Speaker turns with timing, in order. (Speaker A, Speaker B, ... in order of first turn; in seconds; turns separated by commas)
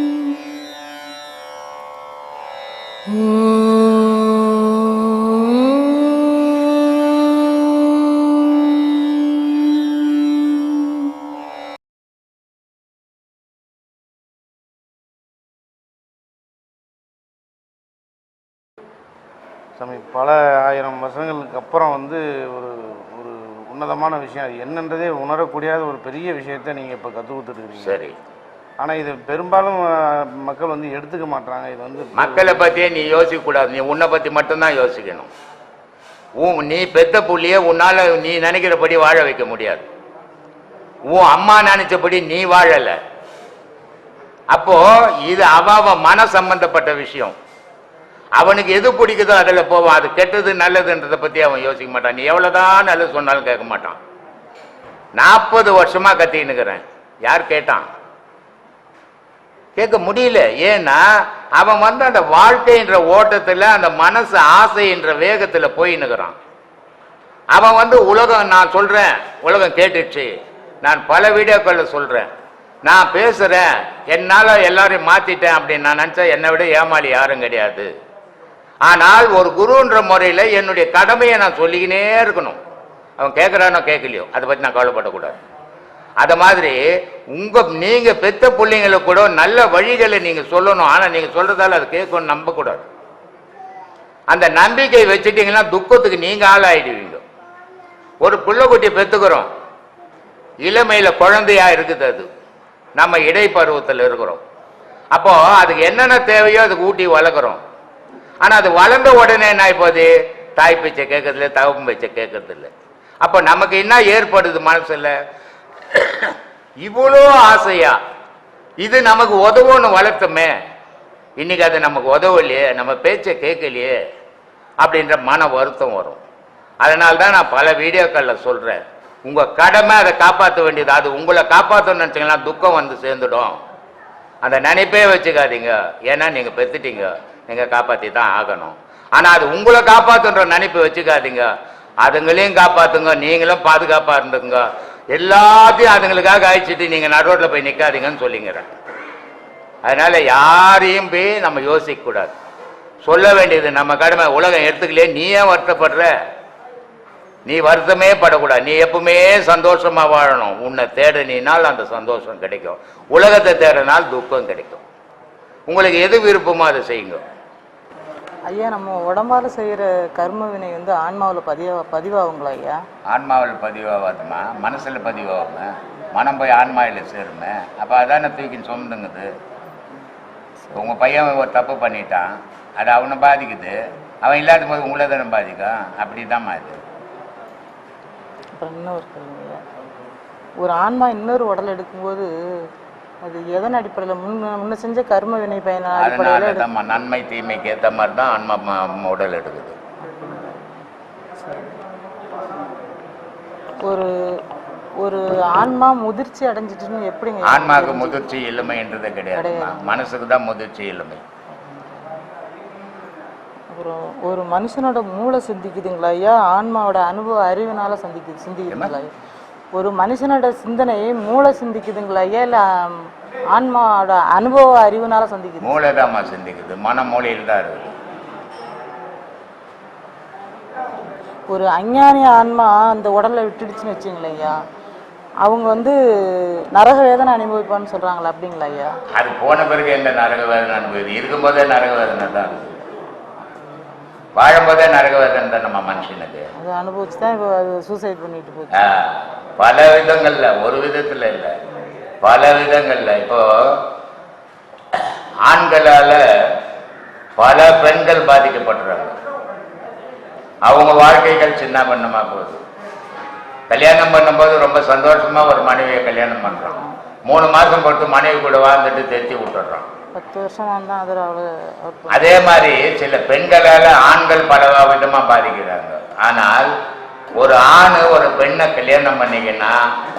Speaker A: 19.8-28.0, Speaker B: 27.8-28.1, Speaker A: 28.8-32.6, Speaker B: 32.1-35.3, Speaker B: 36.4-39.9, Speaker B: 41.1-43.0, Speaker B: 44.5-47.4, Speaker B: 48.4-54.0, Speaker B: 55.1-57.9, Speaker B: 59.8-61.0, Speaker B: 61.6-66.4, Speaker B: 67.5-70.3, Speaker B: 70.8-72.3, Speaker B: 72.8-77.9, Speaker B: 78.8-82.6, Speaker B: 83.2-85.4, Speaker B: 86.2-86.8, Speaker B: 87.3-92.8, Speaker B: 94.3-97.2, Speaker B: 98.2-99.5, Speaker B: 100.6-102.3, Speaker B: 103.0-104.4, Speaker B: 105.1-107.6, Speaker B: 108.4-112.7, Speaker B: 113.2-115.1, Speaker B: 115.9-118.0, Speaker B: 118.8-120.5, Speaker B: 121.4-124.0, Speaker B: 124.8-126.2, Speaker B: 126.8-133.6, Speaker B: 134.4-141.5, Speaker B: 142.0-148.7, Speaker B: 149.8-152.3, Speaker B: 153.0-156.1, Speaker B: 157.5-164.8, Speaker B: 165.7-167.2, Speaker C: 168.5-172.7, Speaker B: 173.1-179.3, Speaker B: 180.8-186.8, Speaker C: 188.6-189.6, Speaker C: 190.6-192.3, Speaker C: 193.2-196.7, Speaker B: 196.0-199.8, Speaker C: 201.4-201.7, Speaker C: 203.8-204.1, Speaker C: 205.0-208.2, Speaker B: 207.4-211.2, Speaker C: 209.3-210.0, Speaker C: 211.6-212.0, Speaker C: 213.7-219.1, Speaker C: 219.7-222.6, Speaker C: 223.5-225.7, Speaker B: 225.6-227.9, Speaker C: 231.5-234.6, Speaker C: 235.4-235.9, Speaker C: 236.8-238.9, Speaker B: 239.1-242.8, Speaker B: 244.3-246.5, Speaker C: 246.6-248.9, Speaker B: 248.8-251.6, Speaker B: 252.2-253.8, Speaker B: 254.9-256.2, Speaker B: 257.4-259.1, Speaker B: 260.6-262.6, Speaker B: 263.7-269.9, Speaker C: 266.5-267.0, Speaker C: 270.1-272.5, Speaker B: 272.1-276.7, Speaker B: 277.3-279.8